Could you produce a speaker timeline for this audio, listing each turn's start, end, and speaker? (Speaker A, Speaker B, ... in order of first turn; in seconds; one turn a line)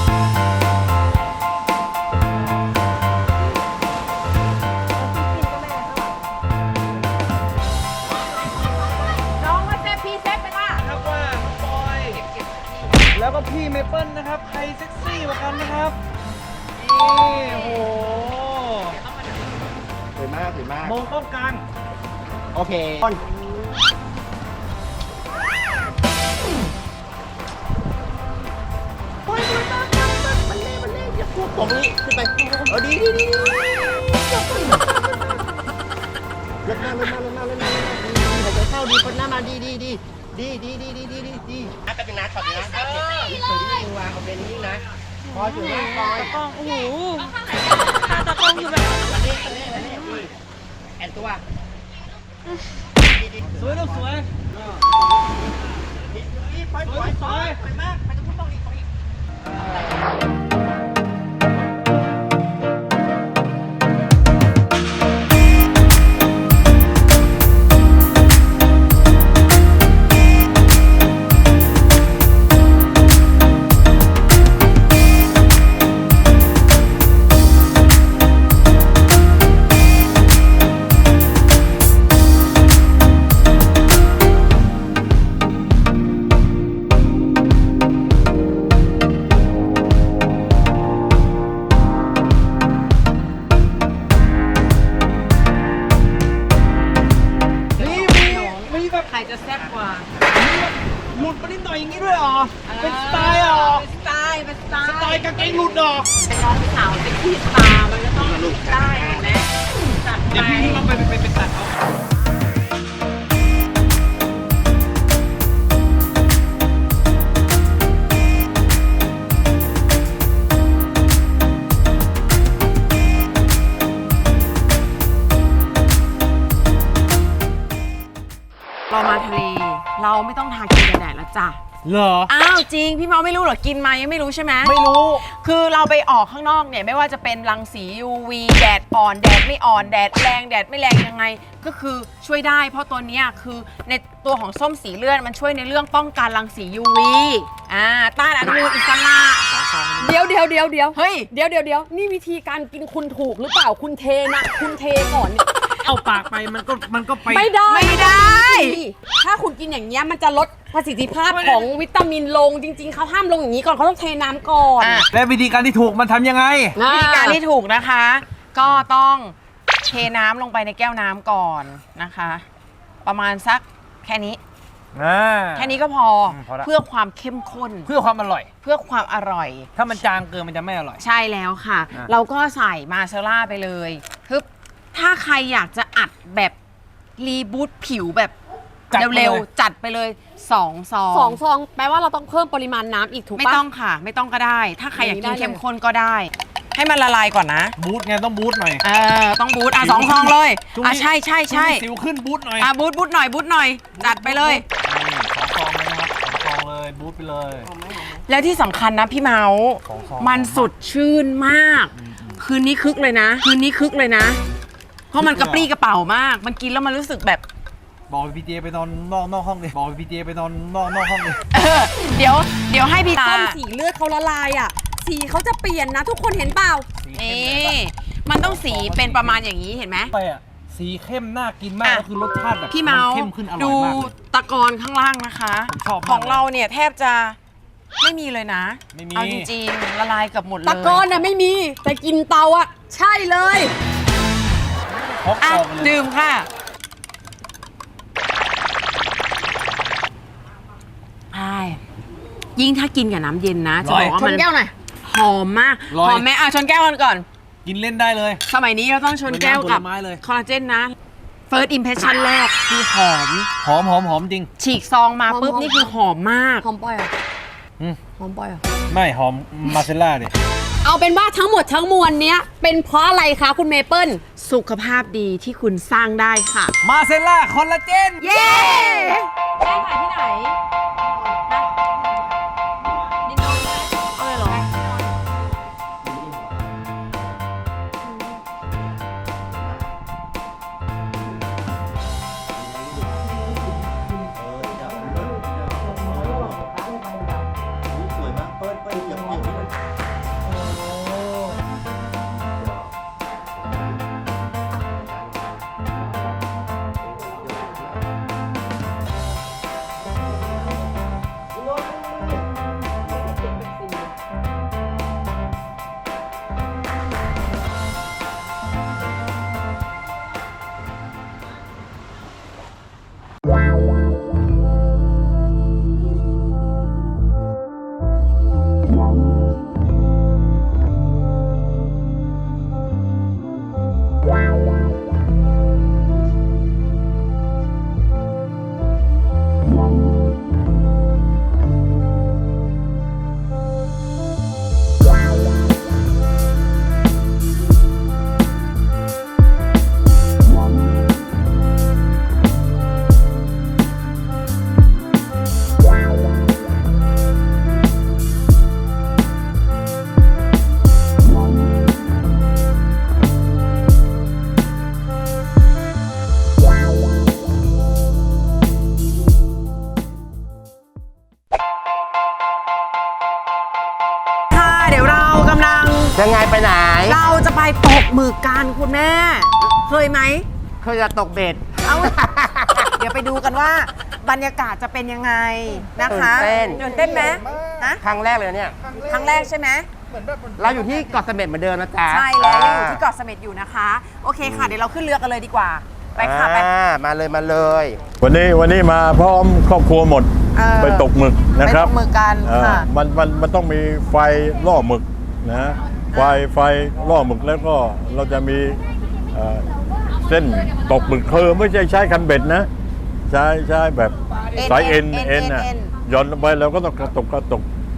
Speaker A: 9.3-10.8
Speaker B: 10.8-12.2
Speaker B: 13.1-16.0
Speaker B: 16.8-19.0
Speaker C: 20.1-20.9
Speaker B: 20.8-21.6
Speaker C: 22.5-23.2
Speaker C: 29.3-35.1
Speaker C: 36.6-46.4
Speaker D: 45.4-47.3
Speaker A: 46.2-46.9
Speaker D: 48.1-48.6
Speaker C: 49.0-50.2
Speaker C: 51.0-51.4
Speaker B: 53.5-54.4
Speaker C: 56.5-58.6
Speaker B: 56.8-57.6
Speaker A: 97.8-100.1
Speaker B: 97.8-99.1
Speaker B: 100.3-103.8
Speaker A: 102.6-110.8
Speaker B: 104.8-106.1
Speaker B: 110.3-111.7
Speaker A: 128.9-131.6
Speaker B: 131.8-132.3
Speaker A: 132.3-149.4
Speaker B: 134.6-135.2
Speaker B: 149.5-150.2
Speaker D: 150.0-155.4
Speaker A: 150.9-151.3
Speaker B: 155.8-157.6
Speaker D: 157.2-165.0
Speaker A: 157.7-158.8
Speaker B: 161.3-161.7
Speaker A: 164.8-165.1
Speaker B: 165.1-166.8
Speaker D: 166.7-167.4
Speaker A: 166.8-172.4
Speaker A: 173.0-174.4
Speaker B: 174.9-176.7
Speaker A: 175.6-177.9
Speaker B: 177.8-178.5
Speaker A: 178.6-179.7
Speaker B: 179.8-181.0
Speaker A: 181.0-186.6
Speaker A: 187.2-188.3
Speaker B: 188.9-189.4
Speaker A: 188.9-191.4
Speaker D: 191.1-193.6
Speaker A: 193.3-197.7
Speaker D: 194.9-195.6
Speaker B: 197.8-198.8
Speaker A: 198.8-201.8
Speaker B: 199.8-202.7
Speaker A: 202.6-204.6
Speaker B: 204.0-207.7
Speaker A: 208.0-214.4
Speaker B: 209.8-210.7
Speaker B: 211.9-212.3
Speaker A: 215.1-217.4
Speaker B: 215.2-215.7
Speaker B: 218.1-221.4
Speaker A: 221.5-223.6
Speaker D: 223.1-226.9
Speaker B: 227.0-227.8
Speaker A: 227.1-230.1
Speaker B: 228.4-229.4
Speaker B: 230.1-234.1
Speaker A: 232.7-237.4
Speaker B: 235.7-236.4
Speaker A: 238.0-241.1
Speaker B: 238.9-239.5
Speaker D: 240.6-243.7
Speaker B: 244.8-246.0
Speaker A: 245.4-246.5
Speaker A: 251.3-251.8
Speaker A: 252.6-254.5
Speaker B: 253.8-254.4
Speaker A: 255.0-257.2
Speaker B: 255.9-256.2
Speaker B: 257.6-258.4
Speaker A: 258.4-260.9
Speaker B: 259.2-260.2
Speaker A: 261.5-263.5
Speaker B: 263.6-264.5
Speaker A: 264.6-266.7
Speaker D: 265.3-265.9
Speaker D: 266.6-267.1
Speaker D: 268.2-268.6
Speaker B: 268.9-270.3
Speaker D: 270.8-274.2
Speaker A: 274.3-276.7
Speaker B: 276.8-278.3
Speaker D: 278.2-280.6
Speaker A: 278.2-279.3
Speaker D: 283.2-285.1
Speaker A: 284.1-284.6
Speaker C: 299.1-299.4
Speaker A: 374.5-376.2
Speaker C: 376.1-377.1
Speaker A: 377.0-380.4
Speaker C: 380.8-381.7
Speaker A: 381.8-382.2
Speaker C: 382.2-382.7
Speaker A: 382.8-388.0
Speaker C: 386.1-387.1
Speaker C: 388.0-388.8
Speaker A: 389.1-389.9
Speaker C: 390.6-393.0
Speaker A: 392.0-396.7
Speaker C: 396.2-398.0
Speaker E: 398.2-401.9
Speaker A: 400.5-402.9
Speaker E: 402.4-412.7
Speaker A: 406.1-406.4
Speaker E: 413.3-417.6
Speaker A: 414.5-415.9